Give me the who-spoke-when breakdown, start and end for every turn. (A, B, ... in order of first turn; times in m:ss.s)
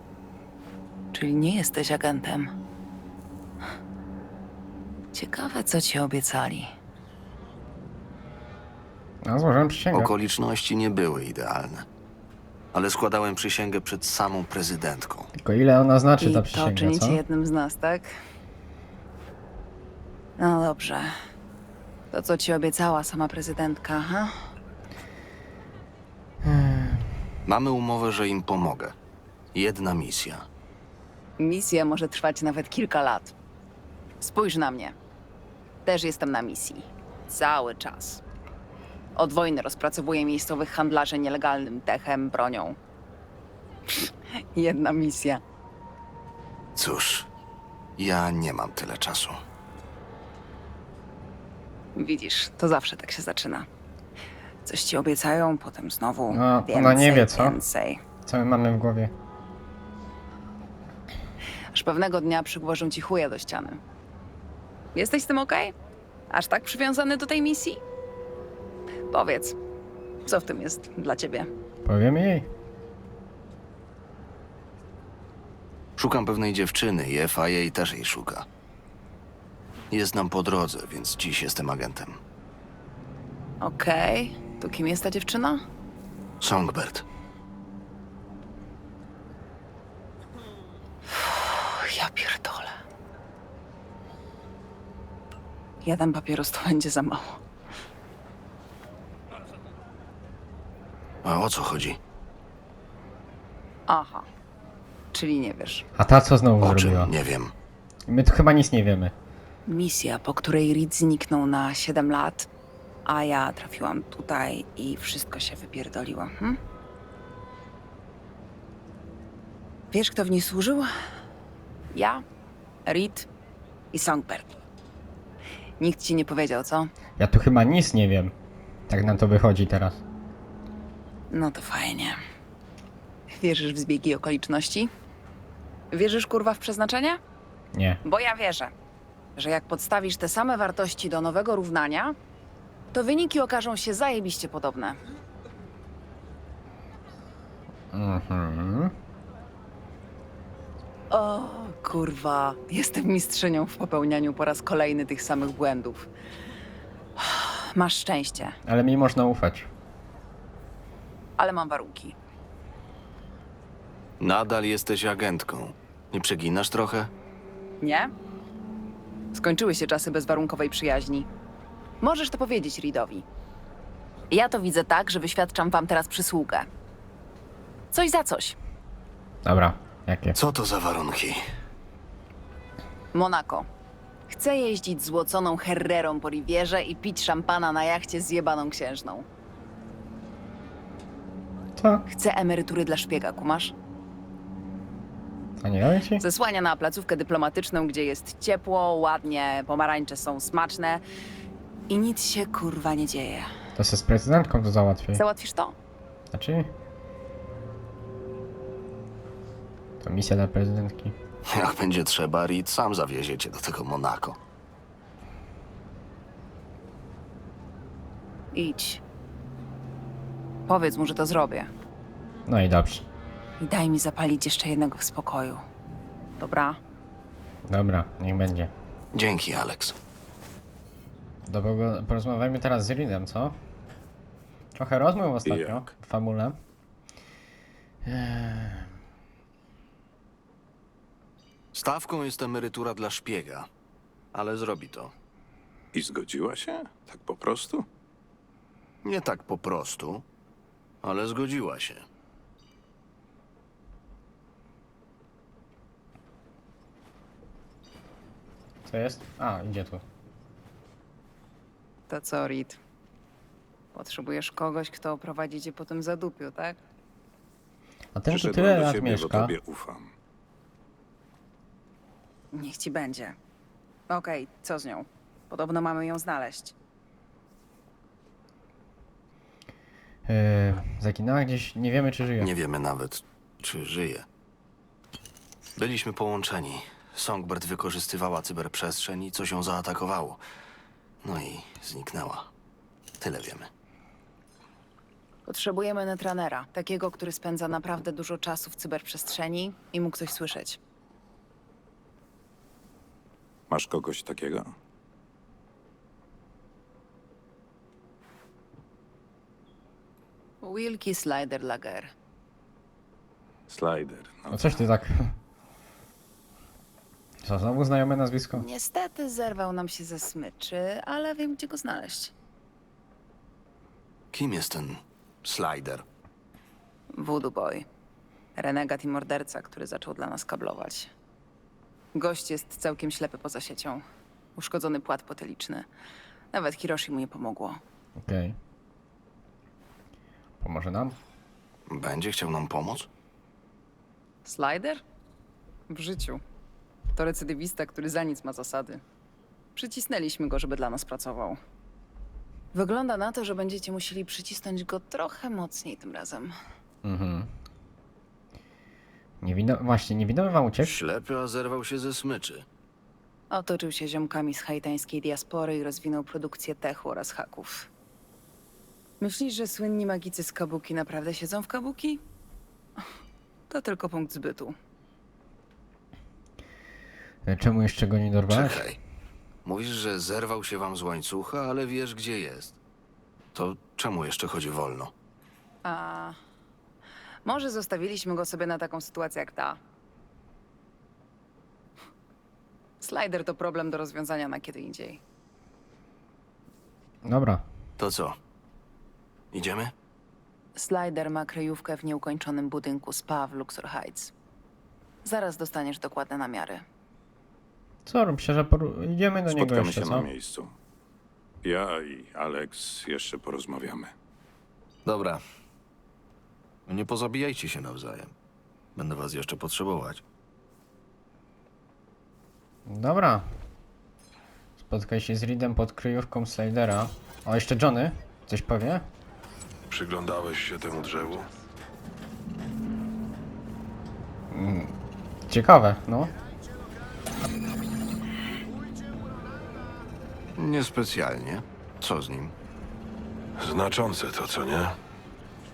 0:01.1-0:02.5 A
0:05.1-0:06.7 A
0:09.2-0:10.1 B
0:09.9-0:11.9 C
0:12.7-0:15.3 C
0:15.4-0:17.2 B
0:16.2-0:18.1 A
0:20.4-0:21.2 A
0:22.1-0:24.3 A
0:26.4-0:27.1 B
0:27.5-0:29.0 C
0:29.5-0:30.5 C
0:31.4-0:33.3 A
0:34.2-0:35.0 A
0:35.8-0:38.2 A
0:39.2-0:42.8 A
0:43.9-0:45.4 A
0:46.8-0:47.3 C
0:48.0-0:49.4 C
0:52.0-0:53.7 A
0:54.6-0:58.0 A
0:56.3-0:57.6 B
0:58.2-0:59.1 B
1:01.7-1:03.8 A
1:05.0-1:05.7 A
1:06.3-1:07.8 A
1:09.1-1:09.6 A
1:10.3-1:11.5 A
1:11.8-1:12.5 B
1:16.0-1:18.5 C
1:19.9-1:22.2 C
1:23.6-1:25.6 A
1:26.4-1:27.0 C
1:31.1-1:32.8 A
1:35.8-1:37.4 A
1:41.2-1:42.0 C
1:43.9-1:44.3 A
1:45.1-1:45.9 A
1:46.0-1:47.1 B
1:46.6-1:47.5 C
1:48.1-1:49.1 B
1:49.7-1:52.5 A
1:53.1-1:56.6 A
1:59.9-2:00.9 A
2:01.9-2:02.2 A
2:02.9-2:03.3 A
2:03.9-2:04.6 A
2:05.8-2:06.9 A
2:07.2-2:08.3 B
2:08.9-2:10.0 B
2:11.3-2:12.2 A
2:13.3-2:14.9 A
2:15.9-2:17.2 A
2:17.7-2:18.0 B
2:18.0-2:18.7 A
2:19.4-2:22.2 A
2:22.9-2:25.0 A
2:27.9-2:28.9 B
2:31.1-2:36.1 A
2:37.2-2:38.6 A
2:38.7-2:39.7 B
2:41.4-2:42.2 A
2:44.2-2:47.1 C
2:47.8-2:48.1 A
2:49.3-2:51.3 A
2:52.0-2:53.3 A
2:54.3-2:56.7 A
2:57.9-2:58.6 A
2:59.4-3:00.4 B
3:00.4-3:01.4 C
3:03.1-3:03.7 A
3:04.3-3:09.3 A
3:11.8-3:12.0 B
3:12.1-3:13.7 A
3:15.6-3:16.2 B
3:16.2-3:21.0 A
3:21.9-3:23.5 A
3:23.8-3:25.2 B
3:25.1-3:25.8 A
3:26.3-3:26.7 B
3:30.0-3:31.2 B
3:31.5-3:34.4 C
3:38.5-3:39.0 A
3:40.7-3:41.7 A
3:42.5-3:43.0 B
3:43.6-3:45.6 A
3:46.4-3:46.8 A
3:47.7-3:48.7 B
3:49.1-3:50.0 C
3:51.5-3:53.6 B
3:54.8-3:56.6 B
3:55.4-3:55.9 D
3:58.0-3:58.9 B
4:01.7-4:03.7 C
4:04.3-4:05.1 C
4:05.9-4:07.9 D
4:09.0-4:10.2 C
4:11.0-4:12.0 C
4:18.9-4:20.0 B
4:22.1-4:22.8 A
4:23.9-4:26.8 A
4:28.2-4:29.5 B
4:28.3-4:30.1 D
4:32.5-4:33.4 A
4:34.1-4:36.8 A
4:40.3-4:42.5 B
4:42.4-4:44.3 C
4:45.8-4:50.4 C
4:51.2-4:52.5 C
4:53.2-4:53.7 C
4:55.5-5:00.8 A
5:03.7-5:04.7 D
5:10.6-5:12.1 A
5:13.7-5:14.8 D
5:14.5-5:15.4 B
5:17.4-5:18.6 B
5:18.5-5:22.3 A
5:24.3-5:26.0 C
5:27.1-5:27.9 A
5:28.6-5:31.1 A
5:32.2-5:34.0 A
5:34.6-5:35.9 A
5:36.5-5:37.8 A
5:38.2-5:38.6 B
5:40.6-5:41.2 B
5:41.9-5:43.1 C
5:44.4-5:45.0 A
5:45.9-5:46.4 A
5:47.1-5:49.0 A
5:49.8-5:51.6 A
5:52.7-5:56.5 A
5:57.0-5:57.5 B
5:59.4-6:01.0 B
6:00.8-6:02.7 C
6:03.5-6:07.9 A
6:09.2-6:12.2 A
6:13.7-6:14.8 A
6:17.4-6:18.8 B
6:18.5-6:19.0 C
6:19.6-6:22.8 C
6:23.5-6:25.1 C
6:25.8-6:26.4 A
6:27.4-6:29.8 A
6:33.0-6:35.2 A
6:37.2-6:37.6 B
6:38.0-6:38.4 C
6:39.5-6:39.9 C
6:40.8-6:44.3 A
6:45.2-6:46.9 A
6:48.1-6:50.3 B
6:49.5-6:50.7 D
6:51.6-6:54.1 D
6:55.0-6:55.4 C
6:56.9-6:58.3 C
6:59.0-7:00.2 C
7:02.9-7:03.5 B
7:04.8-7:09.1 B
7:09.9-7:11.5 E
7:14.5-7:14.9 B
7:15.5-7:16.3 B
7:20.6-7:22.5 C
7:23.6-7:25.0 E